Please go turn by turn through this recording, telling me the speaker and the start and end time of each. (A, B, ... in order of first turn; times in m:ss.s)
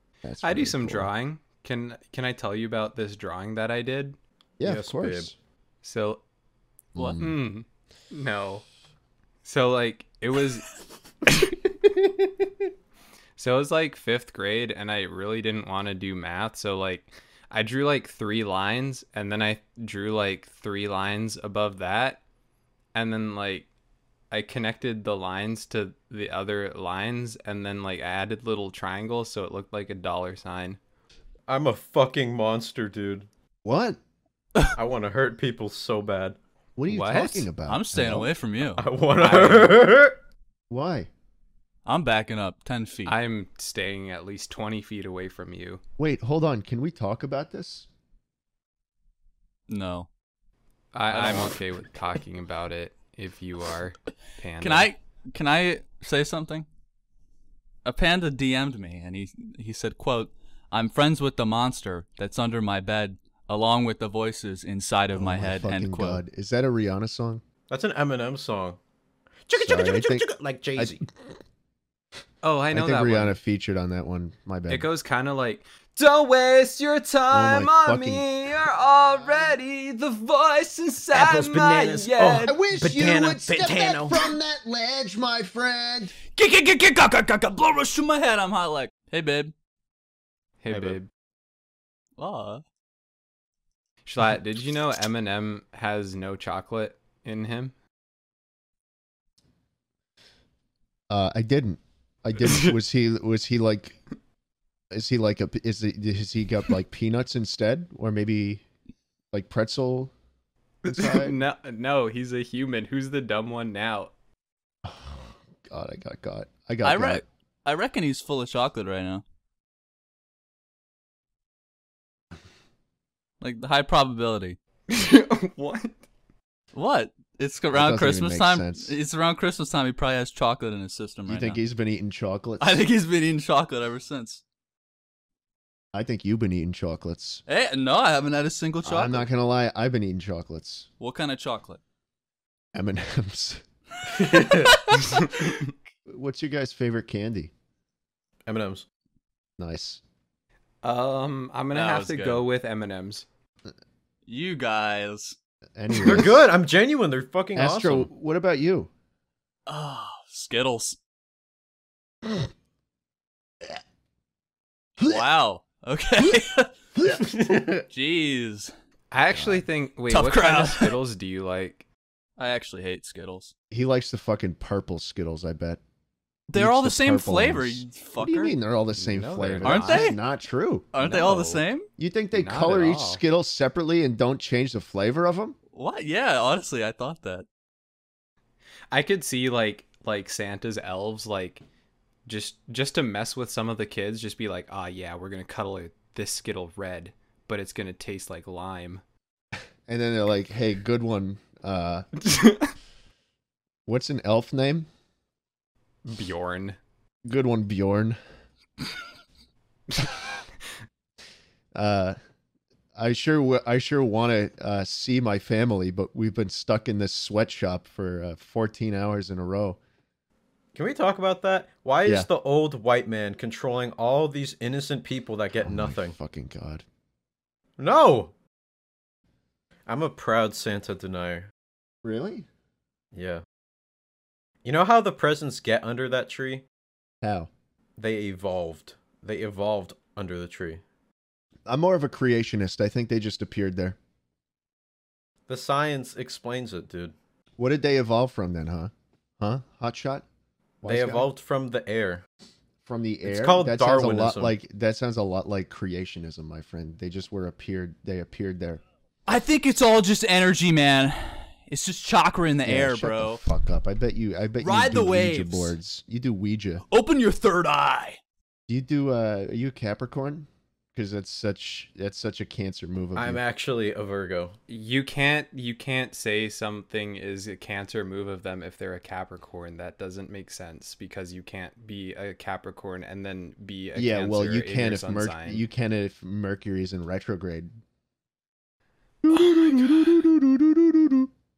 0:00.2-0:01.1 A
0:00.4-0:04.2 B
0:04.6-0:05.3 A
0:04.6-0:05.3 C
0:05.8-0:06.2 B
0:06.9-0:07.4 A
0:07.0-0:08.6 B
0:09.4-0:10.6 B
0:13.4-0:22.2 B
0:22.9-0:23.7 B
0:24.3-0:30.8 B
0:31.5-0:33.3 C
0:33.6-0:34.0 A
0:34.8-0:36.4 C
0:36.8-0:38.3 A
0:36.9-0:37.5 B
0:37.6-0:38.8 D
0:38.6-0:40.2 C
0:39.2-0:39.8 B
0:40.7-0:41.1 A
0:41.8-0:43.2 D
0:43.0-0:45.8 B
0:46.0-0:47.9 A
0:49.7-0:50.1 D
0:50.9-0:54.9 B
0:51.2-0:51.5 D
0:54.6-0:56.7 D
0:57.8-1:06.2 D
1:05.1-1:07.4 A
1:07.7-1:08.8 C
1:09.5-1:11.0 C
1:09.5-1:11.0 A
1:12.4-1:13.4 B
1:12.7-1:14.9 A
1:14.7-1:22.5 B
1:17.3-1:18.3 A
1:21.1-1:24.3 C
1:22.4-1:26.1 A
1:26.3-1:29.5 D
1:30.6-1:31.1 B
1:32.2-1:32.6 D
1:34.0-1:37.7 B
1:41.1-1:44.0 A
1:44.9-1:48.6 A
1:49.3-1:50.1 A
1:50.8-1:54.1 B
1:50.8-1:51.4 A
1:54.8-1:57.2 A
1:56.8-1:59.2 D
2:03.4-2:04.6 D
2:04.9-2:06.0 B
2:06.7-2:11.6 D
2:07.7-2:08.9 A
2:11.3-2:12.8 A
2:12.6-2:14.4 D
2:15.9-2:17.4 A
2:17.5-2:19.3 D
2:18.8-2:20.9 A
2:21.0-2:21.8 D
2:22.7-2:23.6 A
2:24.1-2:24.8 C
2:24.6-2:25.0 D
2:25.2-2:25.5 B
2:26.1-2:27.5 A
2:28.5-2:28.8 C
2:29.6-2:30.0 A
2:30.8-2:33.2 B
2:31.7-2:32.4 D
2:34.2-2:35.4 D
2:35.8-2:36.4 A
2:35.9-2:38.1 C
2:37.6-2:38.9 A
2:39.7-2:41.0 D
2:45.0-2:48.7 D
2:49.1-2:51.8 B
2:49.3-2:49.6 A
2:50.1-2:51.0 D
2:52.4-2:53.5 D
2:53.7-2:55.8 A
2:56.5-2:58.5 D
2:56.5-3:00.9 A
2:58.9-3:00.2 B
2:59.6-3:00.2 D
3:00.9-3:01.9 D
3:01.0-3:01.6 B
3:02.0-3:05.6 A
3:02.3-3:03.2 B
3:05.7-3:07.4 D
3:08.9-3:11.6 B
3:12.2-3:19.0 B
3:19.9-3:22.1 A
3:22.2-3:22.7 B
3:23.9-3:24.9 A
3:26.0-3:26.8 B
3:27.2-3:28.2 A
3:31.7-3:32.2 A
3:32.9-3:39.8 A
3:40.7-3:46.1 C
3:45.6-3:46.8 A
3:47.8-3:48.3 C
3:49.9-3:51.5 C
3:52.0-3:52.4 A
3:53.1-3:53.4 C
3:54.6-3:56.6 C
3:57.2-3:57.5 A
3:58.0-4:00.8 C
4:01.7-4:04.0 A
4:05.5-4:07.1 C
4:07.6-4:10.2 A
4:10.8-4:11.3 A
4:10.8-4:12.2 C
4:12.8-4:18.8 A
4:13.2-4:14.5 C
4:19.3-4:23.4 D
4:22.6-4:26.8 A
4:24.6-4:25.7 D
4:26.9-4:28.2 D
4:28.7-4:33.4 A
4:33.2-4:34.6 C
4:34.7-4:45.6 B
4:44.0-4:47.8 A
4:49.2-4:51.3 A
4:49.3-4:50.2 B